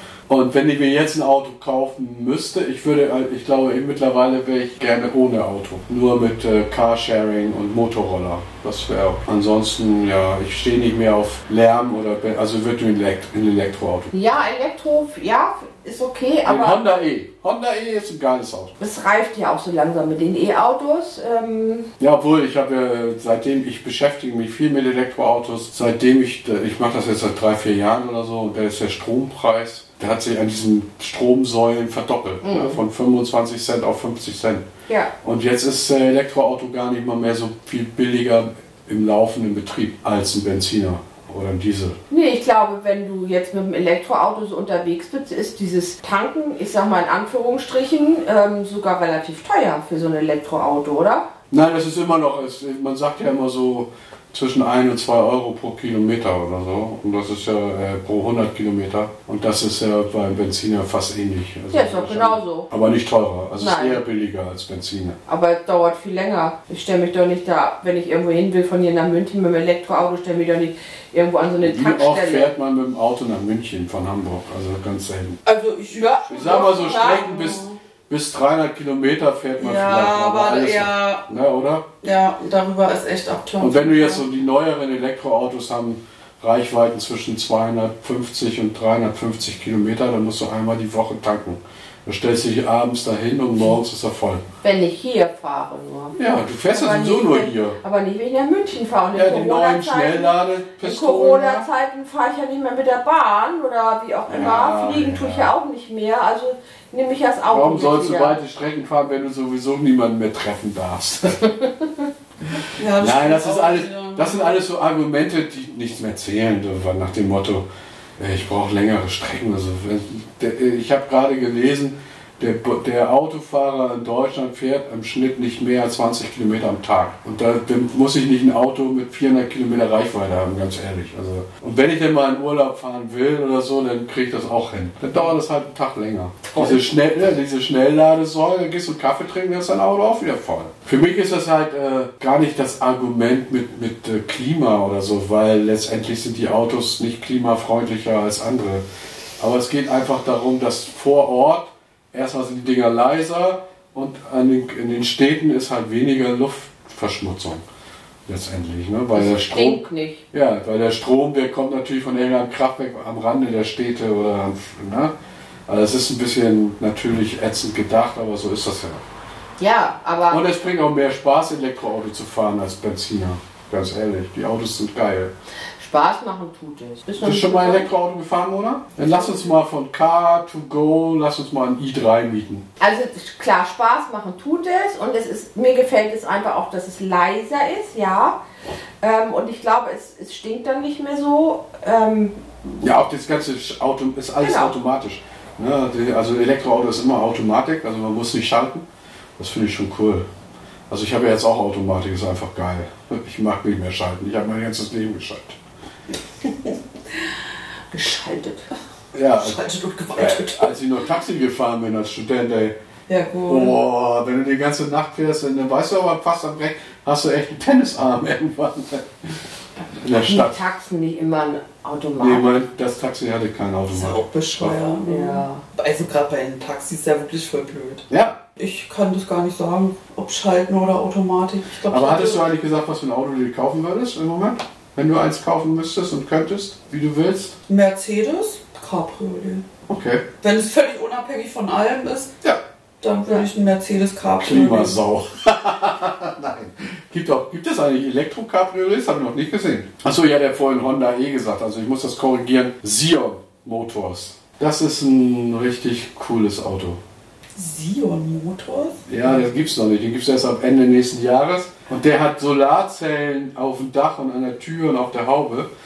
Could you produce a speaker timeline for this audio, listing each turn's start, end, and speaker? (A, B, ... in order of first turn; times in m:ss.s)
0:00.3-0:14.1 A
0:14.1-0:16.8 B
0:16.4-0:18.7 A
0:18.8-0:21.9 B
0:22.0-0:34.7 A
0:32.4-0:32.8 B
0:35.2-0:42.0 A
0:42.1-0:51.3 B
0:51.5-1:05.2 A
1:01.7-1:02.7 B
1:03.6-1:04.0 B
1:05.3-1:12.5 B
1:11.6-1:15.4 A
1:15.5-1:17.8 C
1:15.9-1:17.6 B
1:16.3-1:21.9 A
1:19.6-1:21.3 C
1:22.0-1:24.2 C
1:23.6-1:34.4 A
1:34.6-1:36.2 B
1:36.1-1:37.8 A
1:36.7-1:48.4 B
1:39.1-1:41.6 A
1:44.3-1:45.5 A
1:47.5-1:51.5 A
1:51.4-1:51.9 B
1:52.8-1:54.6 C
1:53.0-1:57.7 A
1:58.2-2:28.8 A
2:16.6-2:16.8 C
2:29.4-2:37.6 A
2:38.3-2:45.1 A
2:39.1-2:40.2 B
2:45.7-2:49.0 A
2:49.6-2:50.4 B
2:50.3-2:55.3 A
2:55.8-2:57.9 B
2:57.2-3:02.7 A
2:59.0-2:59.5 B
3:02.8-3:08.4 B
3:09.0-3:12.4 B
3:12.8-3:18.9 A
3:14.4-3:14.7 B
3:19.4-3:20.3 A
3:20.9-3:25.6 A
3:27.9-3:28.6 B
3:29.1-3:29.6 A
3:29.4-3:30.7 C
3:30.2-3:32.8 A
3:33.1-3:33.8 C
3:33.5-3:39.1 A
3:40.0-3:40.6 A
3:40.1-3:42.4 B
3:42.2-3:44.8 A
3:43.9-3:48.1 C
3:45.0-3:45.6 B
3:48.1-3:48.4 A
3:48.6-3:52.4 C
3:51.9-3:57.6 A
3:57.7-3:59.6 C
3:59.9-4:00.2 A
4:00.4-4:02.3 C
4:03.0-4:05.0 C
4:04.4-4:17.0 A
4:17.6-4:19.0 C
4:19.1-4:25.7 A